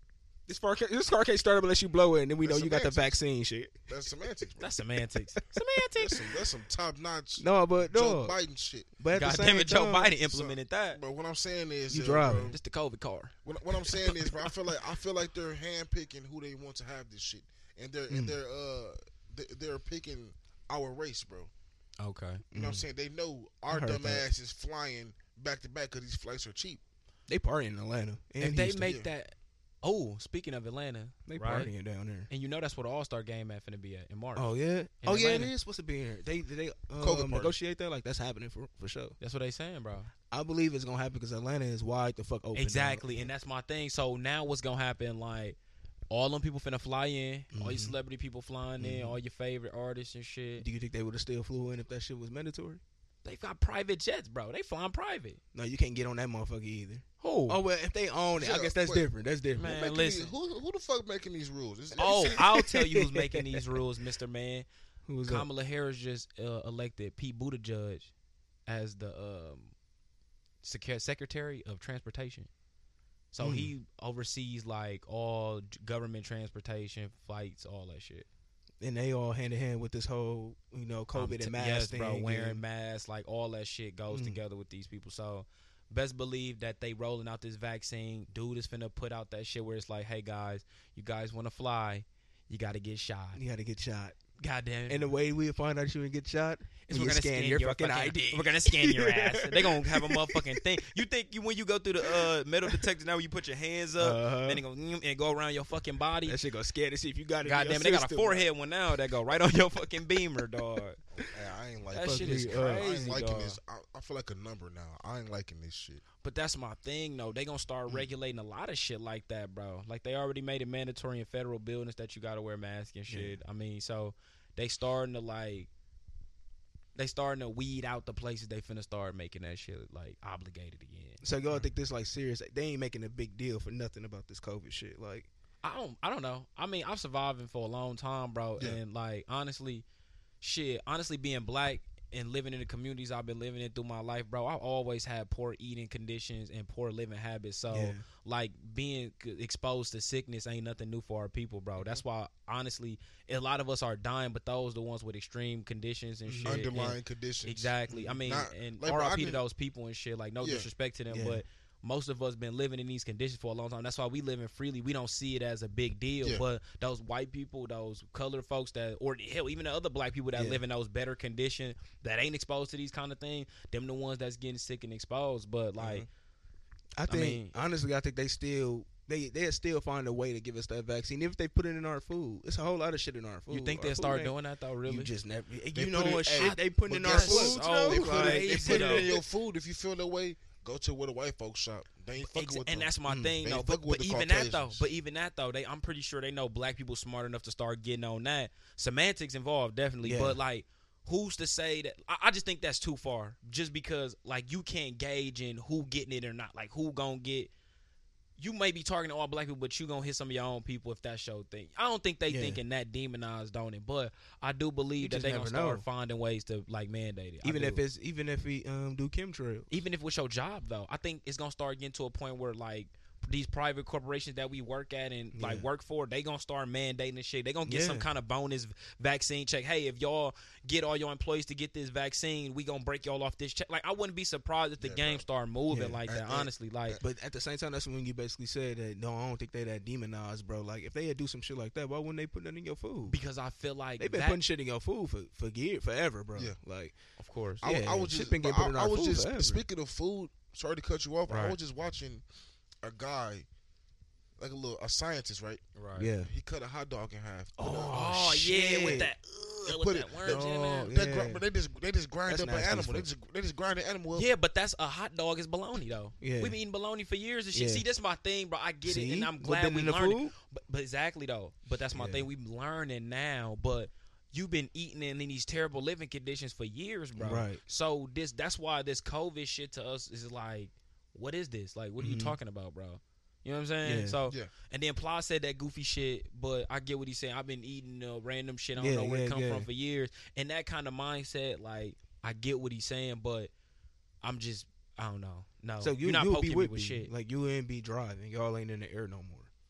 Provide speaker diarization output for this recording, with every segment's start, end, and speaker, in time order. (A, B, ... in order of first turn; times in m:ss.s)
0:00.5-0:03.7 A
0:02.4-0:03.2 B
0:03.9-0:04.7 B
0:04.6-0:06.2 C
0:05.9-0:08.9 B
0:07.4-0:08.4 A
0:09.0-0:10.1 A
0:09.1-0:11.0 C
0:10.3-0:12.6 B
0:11.9-0:12.5 A
0:12.5-0:14.5 C
0:13.4-0:21.5 B
0:18.1-0:18.4 A
0:22.0-0:22.4 C
0:22.5-0:22.8 A
0:22.5-0:26.8 B
0:23.7-0:24.2 A
0:27.3-0:28.9 A
0:28.4-0:31.7 C
0:28.8-0:29.1 B
0:31.3-0:32.3 A
0:32.3-0:34.5 C
0:34.3-0:39.2 A
0:35.0-0:35.5 C
0:37.0-0:37.6 B
0:39.2-0:40.1 C
0:40.3-0:43.3 A
0:42.5-0:45.6 C
0:46.1-0:50.6 C
0:47.5-0:48.0 A
0:48.8-0:49.2 A
0:50.6-0:52.8 A
0:53.2-0:55.4 C
0:55.5-0:59.7 A
0:57.2-0:57.6 C
0:58.4-1:02.4 B
0:59.6-1:00.3 C
1:02.0-1:04.7 C
1:02.4-1:03.6 A
1:05.1-1:05.5 A
1:05.2-1:08.1 C
1:08.7-1:09.7 C
1:10.6-1:12.5 C
1:13.3-1:18.2 C
1:13.4-1:13.7 A
1:18.8-1:22.6 A
1:21.1-1:33.4 C
1:24.1-1:24.4 A
1:33.3-1:34.2 A
1:34.4-1:35.1 C
1:34.9-1:40.6 A
1:36.9-1:46.4 C
1:42.0-1:42.8 A
1:44.0-1:44.6 A
1:46.2-1:48.5 A
1:47.4-1:51.0 C
1:51.1-1:56.0 B
1:51.9-1:53.6 C
1:52.0-1:52.8 A
1:56.2-2:05.7 C
2:03.1-2:03.4 A
2:06.9-2:11.2 C
2:11.2-2:15.3 A
2:15.6-2:19.8 C
2:20.4-2:56.1 C
2:27.7-2:28.0 A
2:36.3-2:36.6 A
2:36.4-2:39.4 B
2:37.9-2:38.2 A
2:40.4-2:40.7 B
2:41.1-2:41.4 A
2:50.3-2:50.6 A
2:55.8-2:56.1 B
2:57.0-3:09.2 A
2:57.1-2:57.5 C
3:03.5-3:05.1 C
3:05.7-3:14.8 B
3:06.4-3:09.1 C
3:12.2-3:27.5 C
3:13.1-3:13.4 A
3:20.0-3:20.4 A
3:28.4-3:37.8 C
3:32.3-3:32.6 A
3:35.0-3:35.8 A
3:37.4-3:39.7 A
3:39.7-3:57.0 C
3:45.3-3:45.7 A
3:47.6-3:48.1 A
3:54.8-3:55.2 B
3:55.7-3:56.0 A
3:56.1-3:57.0 B
3:57.0-4:03.2 A
4:03.1-4:04.4 C
4:04.0-4:06.9 A
4:07.2-4:07.6 C
4:07.6-4:09.6 A
4:07.6-4:12.2 B
4:11.3-4:11.6 C
4:12.8-4:13.5 B
4:14.4-4:15.6 B
4:15.7-4:16.1 C
4:16.0-4:16.3 A
4:16.2-4:18.1 B
4:17.6-4:19.1 A
4:17.9-4:20.9 C
4:19.6-4:24.3 B
4:20.8-4:21.4 A
4:22.3-4:23.1 A
4:24.1-4:53.5 C
4:26.2-4:26.6 A
4:27.5-4:27.8 A
4:28.8-4:30.3 A
4:31.9-4:32.2 A
4:37.2-4:37.6 A
4:42.0-4:42.4 A
4:43.8-4:44.2 A
4:48.8-4:49.7 A
4:54.2-4:57.1 C
4:55.8-4:59.5 A